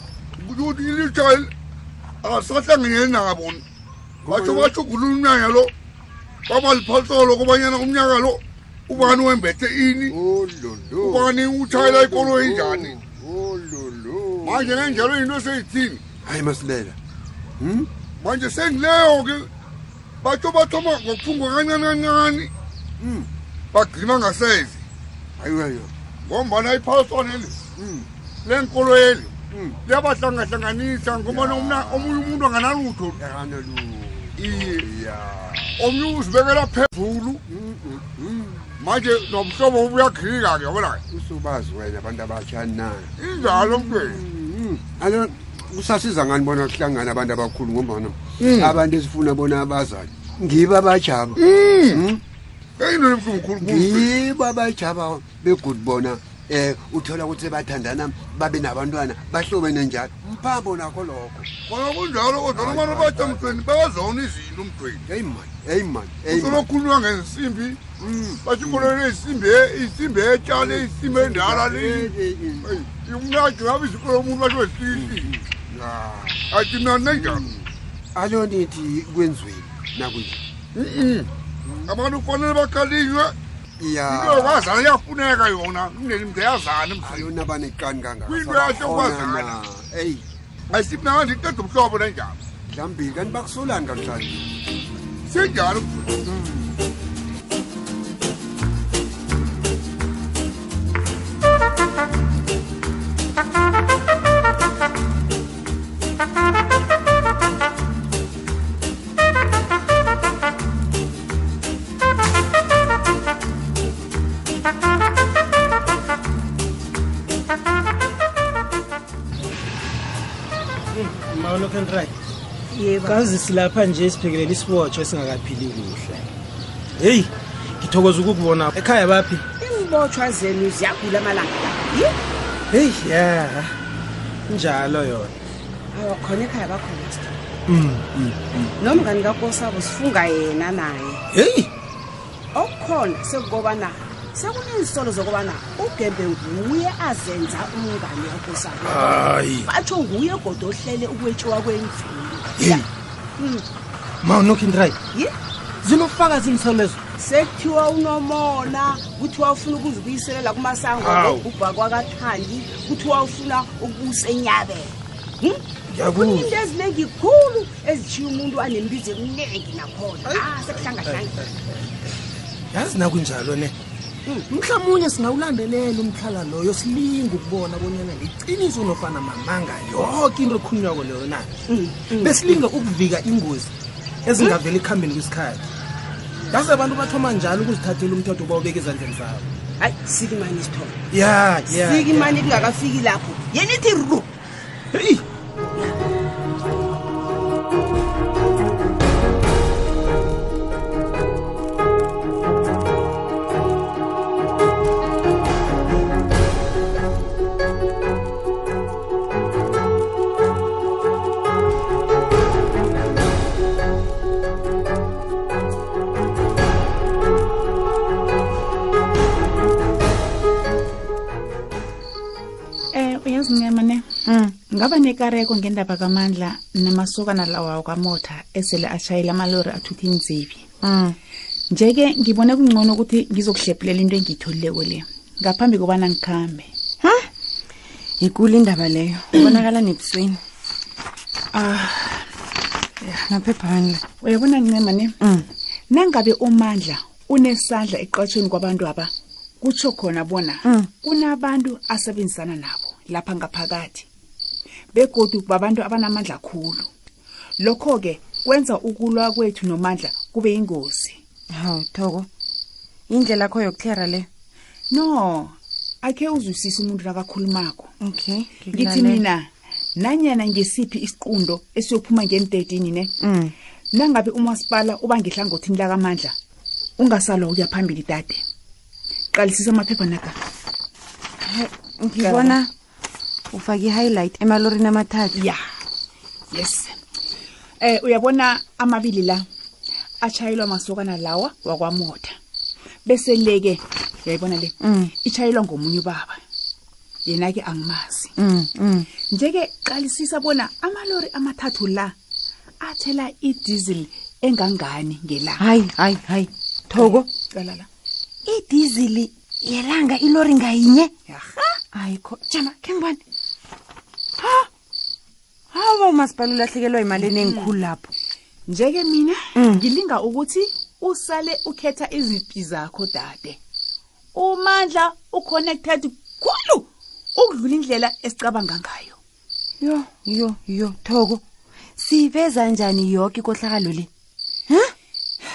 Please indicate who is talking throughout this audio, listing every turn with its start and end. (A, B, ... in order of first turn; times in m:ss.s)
0:00.4-0:01.5 A
0:02.2-0:03.6 A
0:04.2-0:04.7 B
0:04.3-0:05.7 A
0:06.5-0:10.1 A
0:08.9-0:09.2 B
0:10.1-0:15.1 B
0:11.0-0:13.0 A
0:14.4-0:16.0 A
0:16.2-0:17.0 B
0:17.6-0:17.9 B
0:18.2-0:19.5 A
0:20.2-0:22.5 A
0:23.0-0:23.3 B
0:23.7-0:24.8 A
0:25.4-0:25.9 B
0:26.2-0:27.6 A
0:27.8-0:28.1 B
0:28.4-0:29.3 A
0:29.5-0:29.8 B
0:29.8-0:33.2 A
0:31.1-0:32.5 B
0:33.1-0:35.8 B
0:34.4-0:34.8 A
0:35.8-0:37.4 A
0:37.5-0:38.8 B
0:38.8-0:41.0 A
0:41.1-0:51.4 B
0:43.2-0:44.2 A
0:48.4-0:48.8 A
0:51.4-0:52.0 A
0:51.9-0:52.2 B
0:52.8-0:54.1 A
0:53.6-1:01.5 B
1:01.7-1:05.0 A
1:02.5-1:03.6 B
1:05.1-1:06.7 B
1:06.3-1:07.8 A
1:08.0-1:08.9 B
1:08.4-1:15.3 A
1:10.5-1:12.8 B
1:14.9-1:16.5 B
1:16.5-1:17.5 A
1:17.1-1:20.4 B
1:20.8-1:21.3 A
1:21.6-1:21.9 B
1:21.9-1:23.3 A
1:23.8-1:24.7 B
1:24.1-1:27.3 A
1:27.0-1:30.2 B
1:28.3-1:29.6 A
1:30.7-1:32.4 A
1:32.7-1:34.6 B
1:35.3-1:36.2 A
1:36.2-1:36.7 B
2:00.9-2:02.1 C
2:02.7-2:03.2 D
2:03.0-2:06.3 C
2:07.0-2:09.4 C
2:09.6-2:12.2 D
2:12.7-2:13.7 C
2:14.5-2:15.3 C
2:15.9-2:17.4 D
2:17.7-2:18.7 C
2:18.8-2:21.2 D
2:21.3-2:21.7 C
2:22.5-2:32.8 D
2:28.8-2:29.7 C
2:32.6-2:32.9 C
2:33.4-2:33.6 D
2:34.2-2:35.0 C
2:35.8-2:37.0 C
2:37.2-2:51.5 D
2:41.0-2:41.5 C
2:45.9-2:46.6 C
2:50.2-2:51.5 C
2:52.7-2:53.7 C
2:54.5-3:01.5 C
3:01.7-3:02.6 D
3:02.1-3:03.7 C
3:04.2-3:05.6 C
3:06.5-3:09.5 C
3:09.8-3:11.0 D
3:11.1-3:12.7 C
3:11.6-3:14.3 D
3:14.9-3:15.2 C
3:42.9-3:44.0 E
3:44.3-3:44.6 F
3:44.7-3:50.7 E
3:50.8-3:51.2 F
3:51.7-3:56.7 E
3:58.2-4:00.4 F
4:01.5-4:02.3 E
4:03.2-4:04.0 F
4:04.2-4:05.2 E
4:05.9-4:14.1 E
4:10.6-4:10.9 F
4:14.9-4:16.9 E
4:17.6-4:21.2 E
4:21.5-4:22.3 F
4:23.1-4:24.3 F
4:24.9-4:27.9 E
4:28.0-4:29.2 F
4:28.7-4:33.1 E
4:33.2-4:33.5 F
4:33.9-4:36.3 E
4:37.0-4:38.4 E
4:39.3-4:40.4 E
4:41.5-4:42.7 F
4:42.2-4:42.6 E
4:43.5-4:45.4 F
4:45.3-4:45.6 E
4:46.5-4:47.0 E
4:47.8-4:49.4 E
4:50.2-4:52.3 E
4:53.0-4:56.4 E
4:54.8-4:55.1 F
4:57.2-4:58.3 E
4:58.4-4:59.1 F
4:59.3-5:02.1 E
5:02.8-5:05.6 E
5:05.6-5:07.3 F
5:06.9-5:07.9 E
5:08.4-5:11.1 F
5:11.3-5:11.6 E
5:11.9-5:13.2 F
5:14.4-5:14.7 F
5:15.7-5:18.1 F
5:17.2-5:17.7 E
5:18.7-5:23.6 E
5:19.6-5:19.8 F
5:24.3-5:29.2 E
5:29.8-5:31.4 F
5:32.0-5:34.1 F